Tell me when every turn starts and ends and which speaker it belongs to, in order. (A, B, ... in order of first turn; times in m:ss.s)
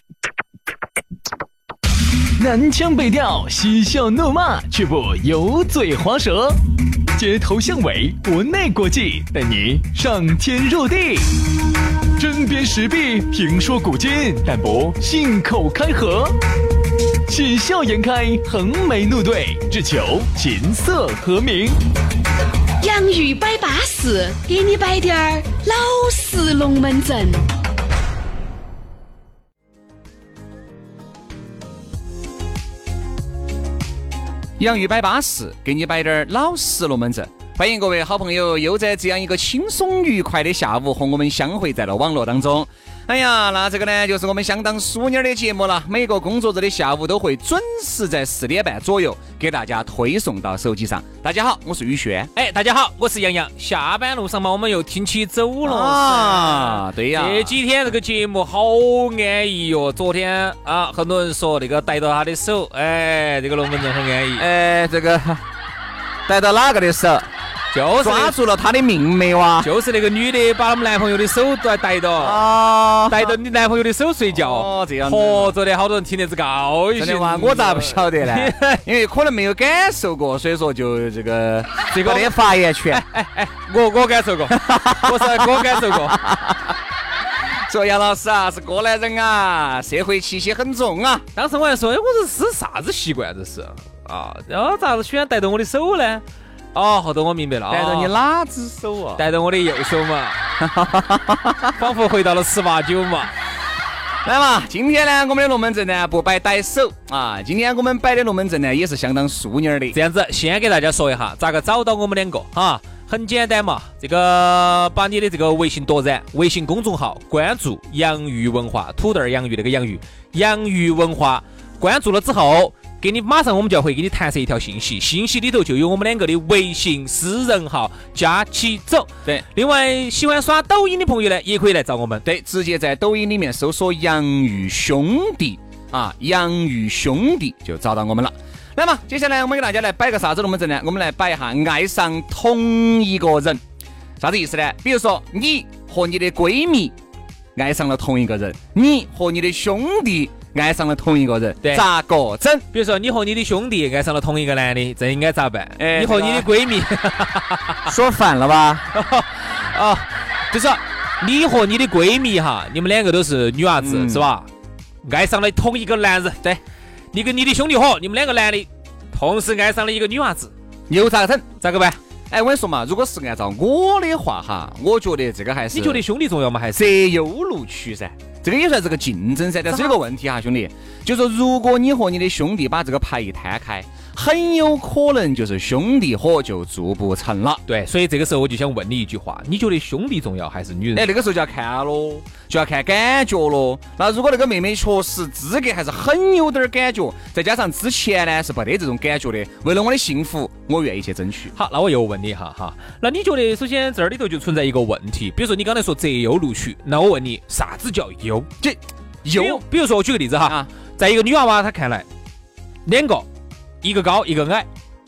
0:02.4-0:06.6 A
0:07.1-0:11.3 A
0:12.2-0:16.4 A
0:17.2-0:21.8 A
0:22.8-0:27.5 B
0:34.6-0:52.3 C
0:52.3-1:04.5 D
0:55.6-0:57.5 C
1:04.4-1:05.4 C
1:06.3-1:07.3 C
1:07.7-1:08.4 D
1:08.0-1:09.7 C
1:09.6-1:12.5 D
1:12.2-1:13.4 C
1:13.1-1:18.8 D
1:14.3-1:15.6 C
1:17.0-1:23.0 C
1:21.9-1:22.4 D
1:22.9-1:26.2 D
1:24.5-1:26.6 C
1:27.7-1:31.2 C
1:31.3-1:38.1 D
1:37.7-1:39.2 C
1:39.2-1:40.4 D
1:40.6-1:41.7 C
1:41.7-1:43.3 D
1:44.2-1:50.0 C
1:49.9-2:12.2 D
2:12.2-2:23.6 C
2:24.2-2:27.0 C
2:27.6-2:32.7 C
2:32.7-2:37.8 D
2:35.8-2:36.5 C
2:37.9-2:38.8 C
2:38.9-2:44.5 D
2:43.8-2:44.3 C
2:45.0-2:46.6 D
2:47.1-2:50.5 D
2:50.9-2:51.5 C
2:51.6-2:52.0 D
2:52.3-2:56.0 C
2:55.7-2:56.9 D
2:56.8-3:07.6 C
2:59.7-3:00.0 D
3:07.7-3:11.1 D
3:10.9-3:21.5 C
3:21.5-3:28.5 D
3:28.6-3:29.6 C
3:29.3-3:32.1 D
3:32.9-3:33.3 D
3:33.8-3:34.7 D